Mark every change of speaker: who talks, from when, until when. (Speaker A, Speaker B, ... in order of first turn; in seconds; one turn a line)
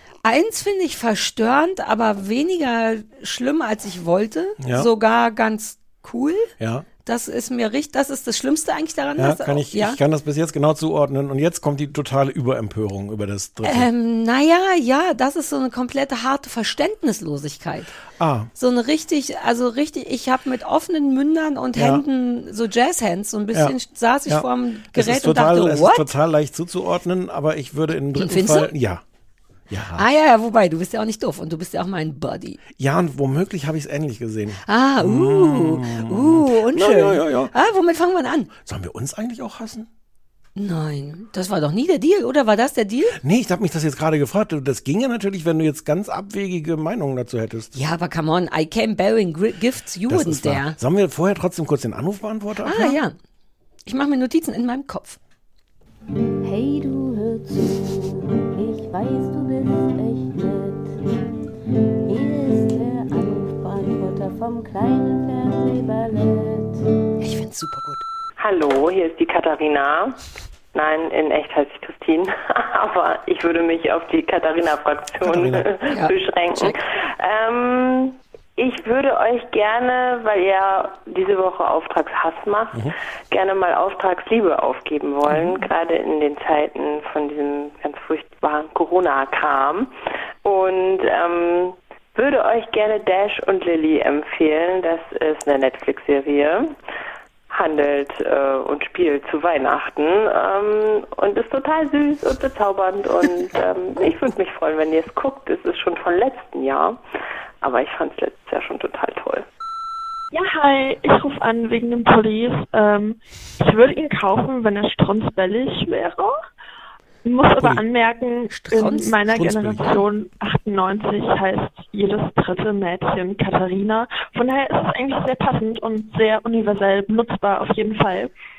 Speaker A: 0.2-6.5
Speaker B: 4.6-4.9
Speaker B: 6.6-6.8
Speaker A: 7.0-10.0
Speaker B: 9.2-13.9
Speaker A: 13.6-17.9
Speaker B: 18.2-18.5
Speaker A: 18.5-26.1
Speaker B: 21.8-22.0
Speaker B: 24.3-29.0
Speaker A: 28.1-28.7
Speaker B: 29.7-30.0
Speaker A: 29.9-32.6
Speaker B: 32.8-37.5
Speaker A: 34.6-38.5
Speaker B: 38.6-39.9
Speaker A: 40.5-43.2
Speaker B: 43.2-47.7
Speaker A: 47.7-50.8
Speaker B: 50.1-53.0
Speaker A: 52.6-53.1
Speaker A: 53.9-55.2
Speaker C: 56.4-61.2
Speaker C: 62.0-66.9
Speaker A: 67.2-68.0
Speaker D: 68.4-70.2
Speaker D: 70.7-89.9
Speaker B: 75.2-75.7
Speaker A: 75.9-76.8
Speaker D: 90.4-96.8
Speaker D: 97.5-107.0
Speaker D: 107.6-109.5
Speaker E: 110.3-116.3
Speaker E: 117.2-128.3
Speaker B: 117.6-117.8
Speaker A: 118.5-119.3
Speaker B: 119.3-120.0